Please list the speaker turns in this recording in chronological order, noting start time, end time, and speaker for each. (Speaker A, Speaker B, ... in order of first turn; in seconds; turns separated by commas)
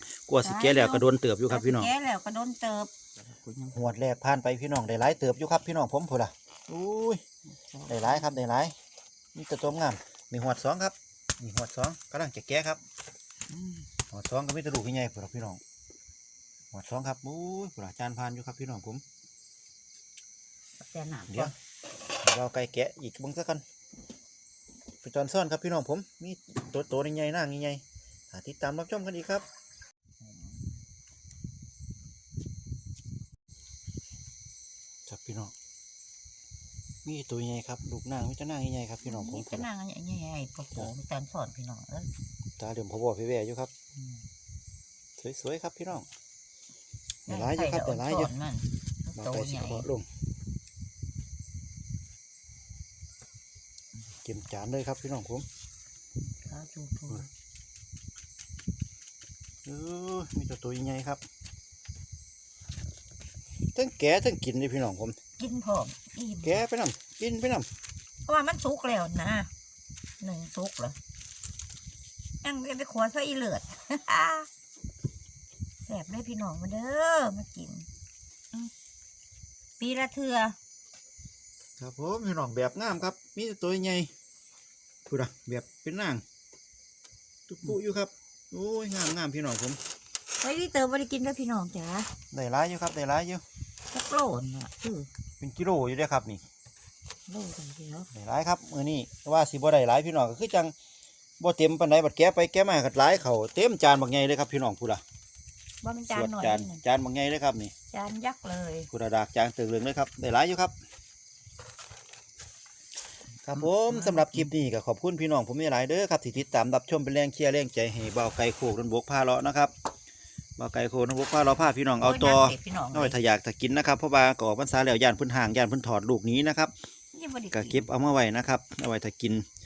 Speaker A: 0.3-1.9, Speaker B: 0.4-3.8, Speaker A: 3.7-7.2, Speaker B: 7.5-8.3, Speaker A: 7.9-8.8, Speaker A: 9.3-12.8, Speaker B: 13.5-13.8, Speaker A: 14.1-15.6, Speaker A: 16.7-19.0, Speaker B: 20.8-21.5, Speaker A: 22.2-23.6, Speaker A: 25.0-29.4, Speaker B: 30.2-30.7, Speaker A: 35.1-35.5, Speaker A: 37.0-39.7, Speaker B: 39.0-42.1, Speaker A: 42.6-43.7, Speaker B: 44.0-44.2, Speaker A: 45.2-46.1, Speaker B: 47.3-49.9, Speaker A: 47.3-48.3, Speaker A: 49.1-50.1, Speaker A: 54.2-55.5, Speaker B: 56.4-57.3, Speaker A: 59.6-61.2, Speaker A: 63.7-65.2, Speaker B: 65.4-66.6, Speaker A: 66.4-67.7, Speaker B: 68.2-69.5, Speaker B: 70.2-71.0, Speaker B: 72.4-74.5, Speaker B: 75.9-77.9, Speaker B: 79.8-80.5, Speaker A: 81.8-84.1, Speaker A: 85.1-86.2, Speaker A: 87.5-89.8, Speaker B: 90.4-92.1, Speaker A: 92.3-93.4, Speaker B: 93.9-95.1, Speaker A: 95.4-96.4, Speaker B: 97.3-98.1, Speaker A: 98.1-100.7, Speaker A: 101.4-105.0, Speaker B: 105.8-106.8, Speaker A: 106.1-107.7, Speaker B: 107.9-108.9, Speaker A: 108.9-110.7, Speaker A: 113.4-119.7, Speaker B: 113.5-114.5, Speaker A: 120.6-126.7, Speaker B: 122.0-123.2, Speaker B: 127.1-127.9, Speaker A: 127.5-129.4